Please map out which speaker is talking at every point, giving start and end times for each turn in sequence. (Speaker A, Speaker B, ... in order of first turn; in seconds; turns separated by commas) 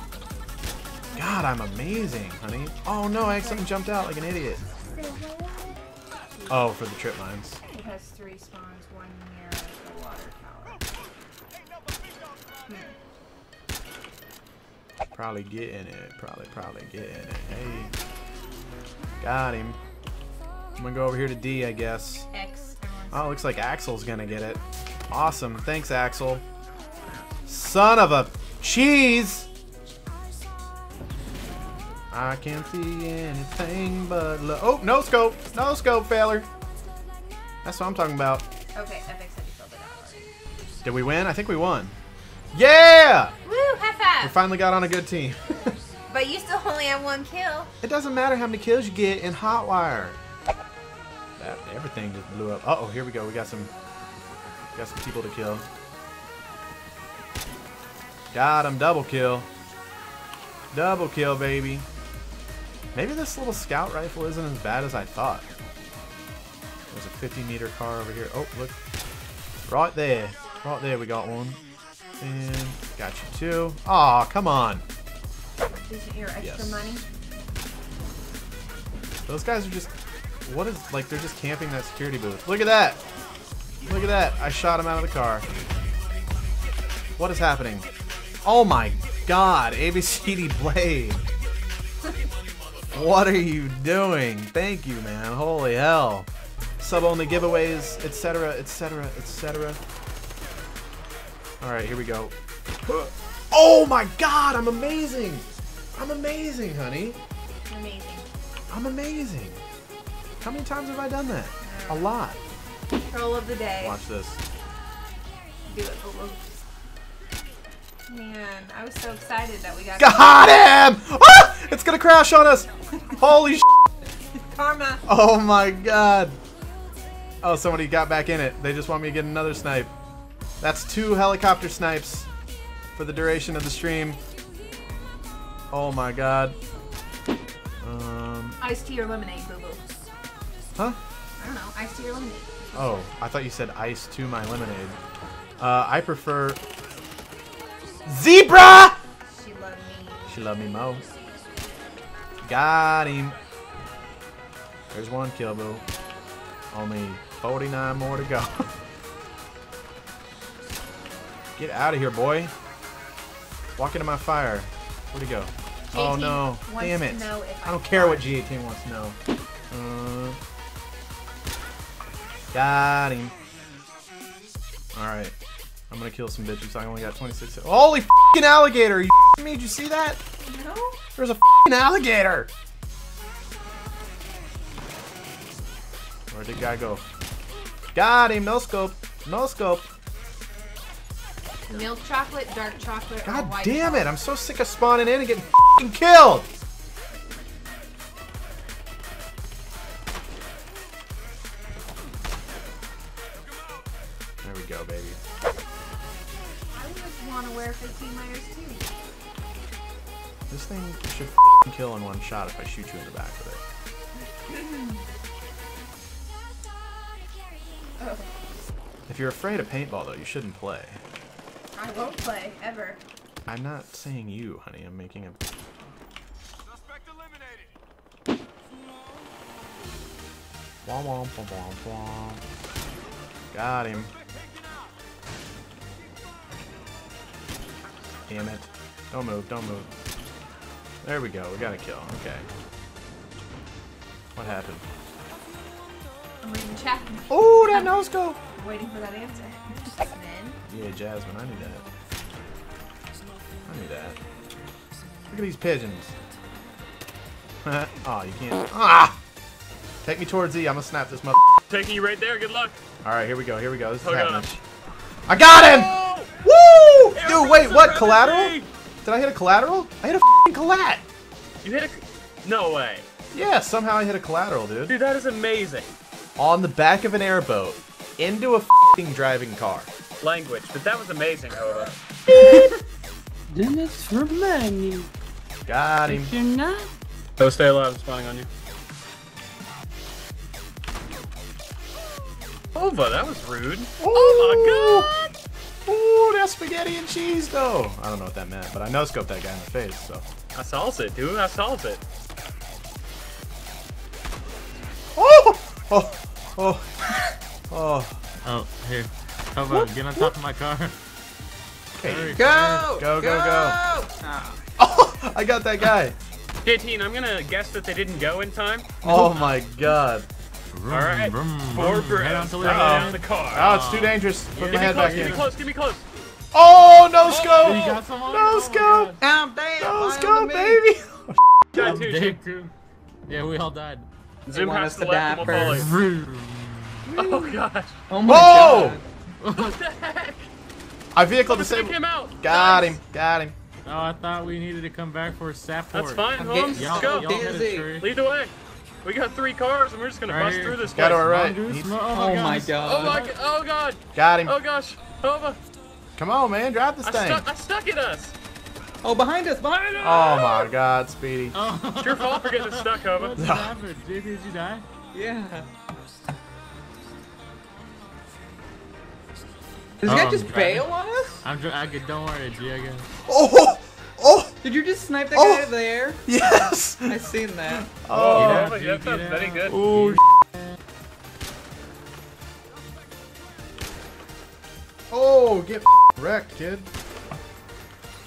Speaker A: 1.1-4.6, Speaker B: 3.2-3.7, Speaker B: 4.8-5.8, Speaker A: 6.5-7.6, Speaker B: 7.7-10.8, Speaker B: 12.7-13.0, Speaker A: 15.2-17.9, Speaker A: 19.2-19.8, Speaker A: 20.8-22.3, Speaker B: 22.3-23.4, Speaker A: 23.1-26.4, Speaker A: 27.5-29.5, Speaker A: 32.1-36.5, Speaker A: 37.6-38.5, Speaker B: 38.7-40.3, Speaker A: 40.8-42.0, Speaker A: 42.5-43.3, Speaker B: 43.4-44.4, Speaker A: 44.2-45.8, Speaker B: 46.1-47.7, Speaker A: 47.8-50.2, Speaker A: 51.4-53.7, Speaker A: 54.8-55.7, Speaker A: 58.3-59.5, Speaker A: 60.7-61.9, Speaker A: 62.9-65.5, Speaker A: 66.9-68.8, Speaker A: 69.7-71.6, Speaker A: 72.2-74.8, Speaker B: 75.7-77.1, Speaker A: 76.4-76.9, Speaker A: 79.3-79.9, Speaker A: 80.5-83.0, Speaker A: 83.8-85.5, Speaker A: 87.2-87.9, Speaker A: 88.4-91.2, Speaker A: 92.9-96.3, Speaker A: 96.8-99.8, Speaker A: 101.6-102.3, Speaker A: 103.5-107.2, Speaker B: 107.7-108.3, Speaker A: 108.7-109.6, Speaker A: 110.4-112.4, Speaker B: 111.6-112.2, Speaker B: 113.1-114.0, Speaker A: 113.8-114.4, Speaker B: 115.7-116.6, Speaker B: 118.1-120.6, Speaker A: 120.0-123.7, Speaker B: 124.3-125.0, Speaker A: 125.1-126.4, Speaker A: 127.4-129.9, Speaker A: 130.6-132.3, Speaker A: 133.0-134.2, Speaker A: 135.7-136.6, Speaker A: 137.8-138.6, Speaker B: 138.6-140.0, Speaker B: 141.4-143.0, Speaker A: 142.7-145.0, Speaker A: 145.6-146.6, Speaker A: 148.1-149.0, Speaker B: 149.3-150.2, Speaker A: 150.3-151.0, Speaker A: 152.5-153.4, Speaker A: 154.9-155.8, Speaker A: 156.7-158.7, Speaker A: 161.6-162.5, Speaker A: 163.8-169.2, Speaker B: 165.9-168.4, Speaker A: 169.7-170.4, Speaker A: 172.5-173.3, Speaker A: 174.9-175.3, Speaker A: 175.9-180.2, Speaker B: 180.4-181.0, Speaker A: 181.2-182.5, Speaker A: 186.3-187.0, Speaker A: 187.9-189.9, Speaker B: 191.7-194.2, Speaker A: 193.2-196.5, Speaker A: 204.4-205.2, Speaker B: 206.7-208.9, Speaker A: 210.5-213.6, Speaker B: 214.2-215.0, Speaker B: 218.0-218.3, Speaker A: 219.1-221.0, Speaker B: 221.7-223.0, Speaker A: 223.5-225.4, Speaker A: 230.8-232.4, Speaker A: 233.5-234.1, Speaker A: 238.3-239.9, Speaker A: 241.0-242.5, Speaker A: 244.4-244.8, Speaker B: 246.4-248.0, Speaker A: 247.3-248.4, Speaker B: 248.5-250.6, Speaker A: 250.7-251.8, Speaker A: 253.7-254.2, Speaker A: 255.3-256.1, Speaker A: 257.6-259.2, Speaker A: 260.0-261.6, Speaker C: 261.7-262.8, Speaker A: 263.0-264.6, Speaker C: 264.0-264.5, Speaker A: 265.3-271.0, Speaker C: 265.5-266.3, Speaker C: 267.1-268.7, Speaker C: 271.6-273.1, Speaker A: 273.3-274.9, Speaker C: 274.9-275.9, Speaker A: 276.4-279.9, Speaker C: 280.2-282.0, Speaker D: 283.6-284.7, Speaker A: 285.7-286.4, Speaker D: 286.2-286.9, Speaker C: 287.4-288.5, Speaker C: 292.7-295.3, Speaker A: 294.0-295.1, Speaker A: 295.9-300.2, Speaker C: 300.5-302.0, Speaker A: 305.2-306.9, Speaker A: 307.7-308.2, Speaker E: 308.4-310.9, Speaker A: 309.7-310.3, Speaker A: 312.0-313.8, Speaker E: 312.0-313.0, Speaker D: 312.3-314.6, Speaker A: 314.8-316.2, Speaker C: 316.6-318.9, Speaker A: 319.0-320.3, Speaker D: 319.0-319.4, Speaker E: 320.7-325.4, Speaker C: 320.9-323.9, Speaker A: 322.6-325.4, Speaker C: 324.6-326.0, Speaker A: 326.5-329.2, Speaker C: 327.3-328.0, Speaker E: 327.6-329.2, Speaker D: 329.2-330.8, Speaker A: 329.8-331.9, Speaker C: 331.7-332.4, Speaker E: 331.8-332.7, Speaker E: 333.3-334.1, Speaker C: 334.5-335.9, Speaker D: 334.5-335.8, Speaker E: 335.4-337.1, Speaker C: 337.1-337.9, Speaker D: 337.2-337.5, Speaker D: 338.1-339.0, Speaker A: 338.2-339.0, Speaker E: 339.4-339.7, Speaker C: 339.6-340.5, Speaker A: 341.1-343.6, Speaker C: 341.5-343.0, Speaker E: 343.9-348.1, Speaker C: 345.9-347.4, Speaker D: 346.4-347.9, Speaker C: 348.0-351.3, Speaker E: 350.3-353.3, Speaker A: 350.9-352.0, Speaker D: 352.1-353.3, Speaker C: 352.8-355.6, Speaker A: 354.1-354.5, Speaker A: 356.2-357.4, Speaker C: 357.0-358.3, Speaker D: 359.0-360.7, Speaker A: 360.0-361.6, Speaker E: 361.5-364.9, Speaker C: 362.0-363.4, Speaker A: 363.4-363.8, Speaker D: 365.1-365.7, Speaker D: 370.0-371.4, Speaker E: 370.0-373.1, Speaker A: 373.3-374.5, Speaker D: 374.6-376.3, Speaker A: 375.3-378.8, Speaker D: 377.0-377.9, Speaker C: 378.1-379.8, Speaker E: 378.3-380.2, Speaker A: 379.7-380.2, Speaker A: 385.1-386.9